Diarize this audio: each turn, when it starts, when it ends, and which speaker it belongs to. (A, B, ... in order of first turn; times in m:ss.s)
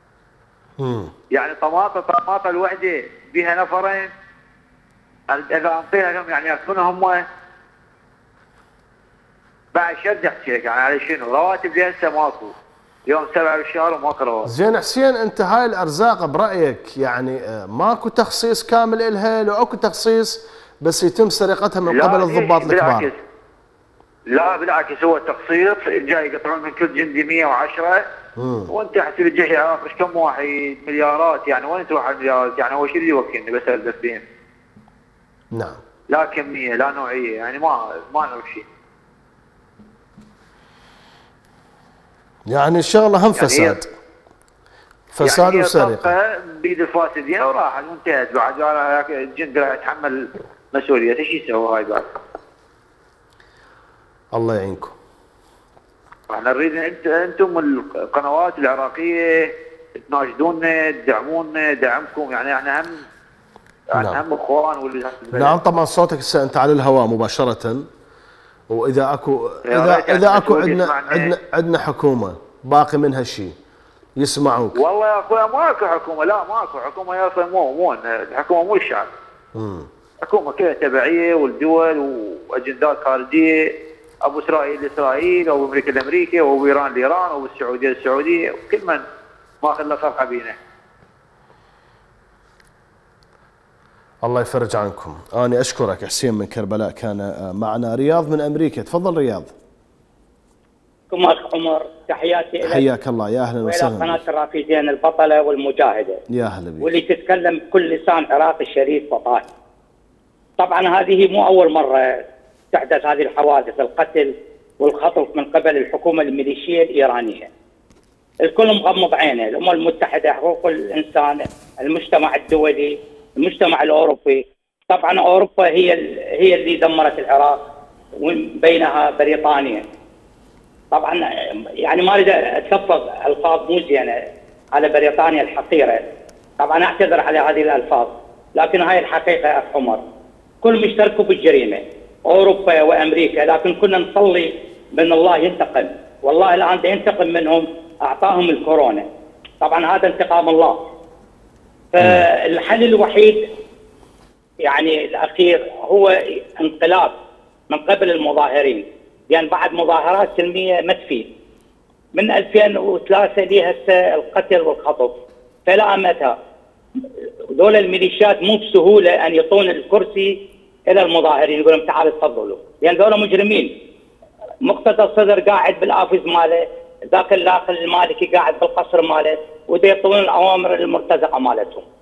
0:00.8-0:01.1 A
0:01.3-0:04.1 B
0:05.3-0:07.3 B
0:09.7-0:12.5 B
0:13.1-0:14.5 B
0:14.5-0:23.1 A
0:21.9-0:23.2 B
0:24.3-0:28.1 B
0:28.4-0:28.7 A
0:28.7-0:34.2 B
0:35.5-0:35.8 A
0:36.1-0:38.7 B
0:42.5-0:43.9 A
0:43.4-0:43.8 B
0:45.1-0:46.1 A
0:45.2-0:52.1 B
0:54.3-0:54.9 A
0:56.3-1:03.0 B
1:03.9-1:05.6 B
1:05.4-1:07.9 A
1:08.7-1:13.6 A
1:09.7-1:11.3 B
1:14.2-1:14.8 A
1:14.8-1:19.1 B
1:19.6-1:19.9 A
1:20.2-1:23.7 B
1:24.2-1:29.0 B
1:29.6-1:30.6 B
1:34.2-1:39.5 A
1:41.1-1:42.8 C
1:42.6-1:44.2 A
1:43.6-1:46.2 C
1:46.3-1:46.9 A
1:46.8-1:49.4 C
1:50.6-1:57.5 C
1:58.5-2:07.7 C
2:08.2-2:09.8 C
2:10.9-2:14.2 C
2:14.7-2:16.1 C
2:16.6-2:20.0 C
2:20.6-2:29.1 C
2:29.6-2:30.9 C
2:31.9-2:33.5 C
2:32.0-2:32.3 A
2:34.7-2:37.1 C
2:37.7-2:41.3 C
2:42.2-2:46.4 C
2:47.6-2:50.4 C
2:50.9-2:53.7 C
2:54.7-3:01.8 C